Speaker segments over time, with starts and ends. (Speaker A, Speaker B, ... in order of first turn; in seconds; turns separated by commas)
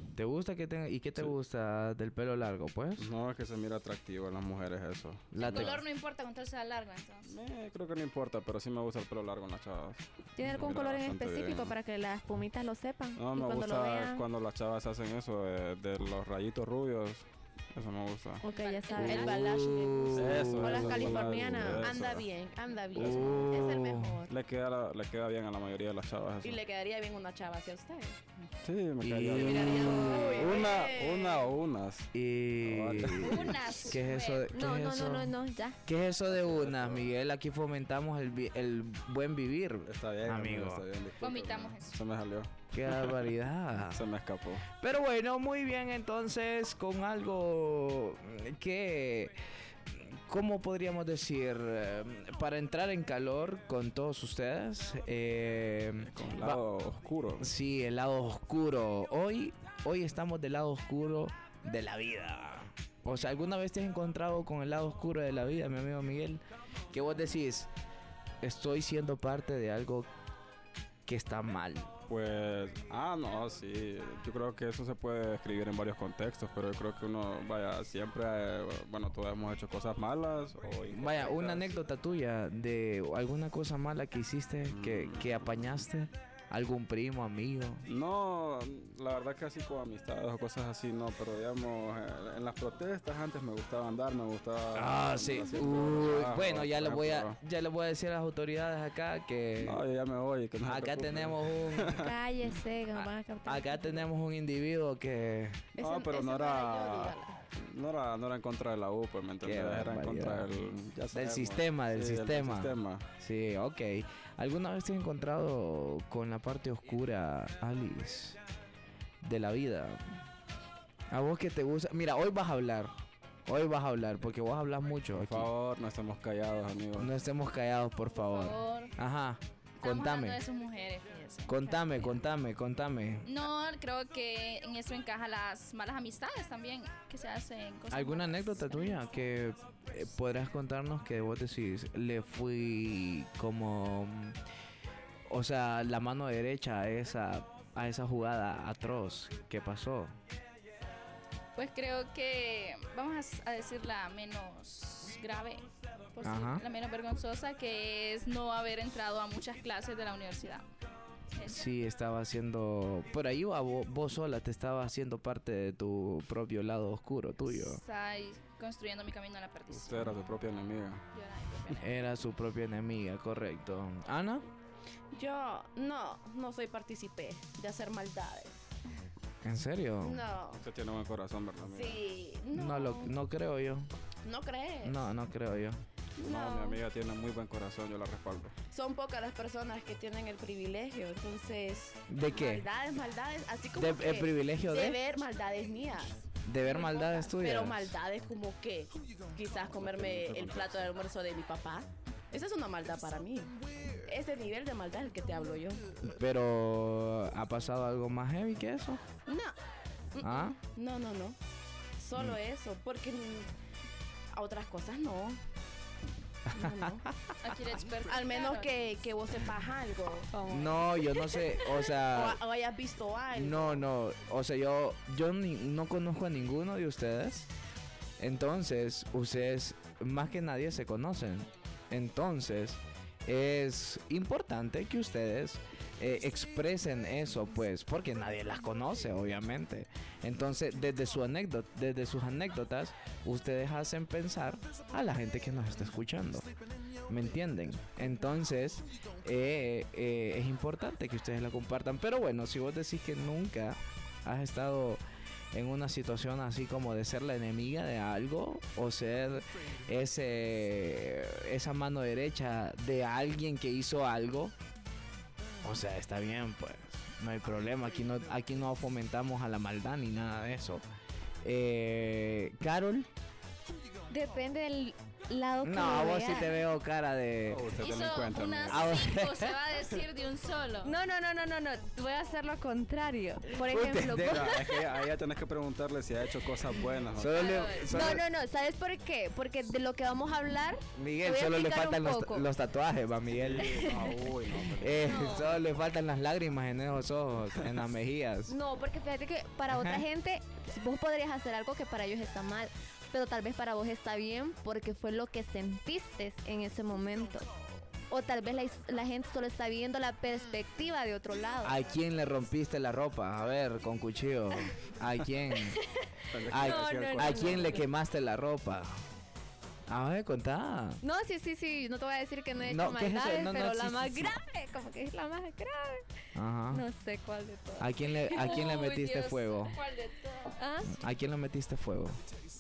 Speaker A: 0.2-3.1, Speaker B: 3.0-5.8, Speaker A: 5.3-5.8, Speaker C: 5.4-7.3, Speaker B: 7.3-11.7, Speaker D: 10.4-14.2, Speaker B: 13.2-18.4, Speaker D: 18.4-19.4, Speaker C: 18.5-19.4, Speaker E: 18.9-24.3, Speaker A: 19.2-21.2, Speaker B: 20.1-22.3, Speaker D: 20.6-21.9, Speaker B: 22.9-23.7, Speaker A: 22.9-24.2, Speaker B: 24.3-26.6, Speaker E: 26.4-28.2, Speaker B: 28.6-32.1, Speaker A: 29.0-30.9, Speaker E: 29.3-31.6, Speaker D: 29.8-30.2, Speaker A: 32.1-40.8, Speaker B: 32.6-33.6, Speaker C: 33.2-34.5, Speaker D: 34.5-35.8, Speaker B: 36.3-37.1, Speaker B: 39.9-43.2, Speaker C: 41.2-42.0, Speaker A: 42.7-44.0, Speaker B: 43.9-44.6, Speaker A: 44.7-49.4, Speaker A: 49.9-56.6, Speaker B: 56.1-57.5, Speaker A: 57.4-67.7, Speaker A: 68.4-70.1, Speaker A: 71.1-72.0, Speaker B: 72.1-81.8, Speaker A: 80.9-87.8, Speaker B: 84.7-85.3, Speaker B: 87.9-97.4, Speaker A: 94.7-99.8, Speaker B: 99.6-102.1, Speaker A: 100.7-102.0, Speaker D: 101.9-104.1, Speaker A: 103.0-105.7, Speaker E: 105.8-107.4, Speaker B: 105.8-113.0, Speaker A: 109.4-110.5, Speaker A: 111.1-118.4, Speaker A: 119.2-120.2, Speaker A: 121.1-122.9, Speaker A: 123.5-125.5, Speaker B: 125.2-127.1, Speaker A: 127.0-130.4, Speaker C: 128.1-128.9, Speaker C: 129.8-132.2, Speaker A: 131.5-133.3, Speaker C: 133.3-139.3, Speaker A: 137.9-144.4, Speaker A: 145.3-150.2, Speaker C: 151.6-160.7, Speaker A: 156.2-156.6, Speaker C: 161.3-161.7, Speaker A: 161.4-167.8, Speaker C: 167.5-170.2, Speaker B: 169.7-171.0, Speaker C: 171.1-172.1, Speaker A: 171.8-174.5, Speaker E: 175.1-178.6, Speaker A: 179.4-180.2, Speaker E: 180.0-180.6, Speaker B: 180.6-182.0, Speaker E: 181.7-183.1, Speaker A: 182.5-183.9, Speaker E: 184.2-185.0, Speaker A: 184.8-185.8, Speaker E: 186.2-186.8, Speaker B: 186.2-188.5, Speaker E: 188.7-205.9, Speaker A: 192.1-192.7, Speaker A: 193.8-195.0, Speaker A: 196.4-198.0, Speaker B: 199.8-200.9, Speaker A: 206.0-209.0, Speaker E: 209.3-209.6, Speaker E: 210.1-211.4, Speaker A: 210.2-210.6, Speaker E: 212.0-213.5, Speaker E: 214.3-215.4, Speaker A: 216.5-217.3, Speaker E: 216.5-217.0, Speaker C: 217.4-218.7, Speaker E: 218.1-220.4, Speaker D: 220.3-220.8, Speaker A: 220.5-222.4, Speaker E: 222.1-223.8, Speaker A: 223.3-227.5, Speaker A: 228.2-246.5, Speaker A: 247.1-255.0, Speaker A: 255.5-264.5, Speaker A: 265.6-270.8, Speaker A: 271.4-273.1, Speaker D: 274.1-276.6, Speaker A: 275.6-277.9, Speaker B: 277.5-278.9, Speaker C: 277.8-280.9, Speaker A: 278.7-279.6, Speaker D: 280.8-285.1, Speaker A: 283.6-284.6, Speaker B: 284.2-287.6, Speaker A: 287.2-288.2, Speaker C: 287.3-287.9, Speaker D: 287.9-292.5, Speaker A: 291.0-294.1, Speaker B: 293.3-295.4, Speaker A: 294.8-298.5, Speaker D: 295.0-295.6, Speaker D: 298.5-307.5, Speaker A: 299.7-300.0, Speaker D: 308.1-311.8, Speaker A: 311.6-315.8, Speaker D: 315.7-317.8, Speaker B: 316.3-317.8, Speaker A: 316.5-319.0, Speaker A: 319.9-321.0, Speaker D: 321.0-326.1, Speaker A: 322.6-324.4, Speaker A: 326.4-326.8, Speaker D: 326.7-328.9, Speaker A: 327.8-329.8, Speaker C: 328.4-330.5, Speaker D: 330.6-331.0, Speaker A: 330.9-332.2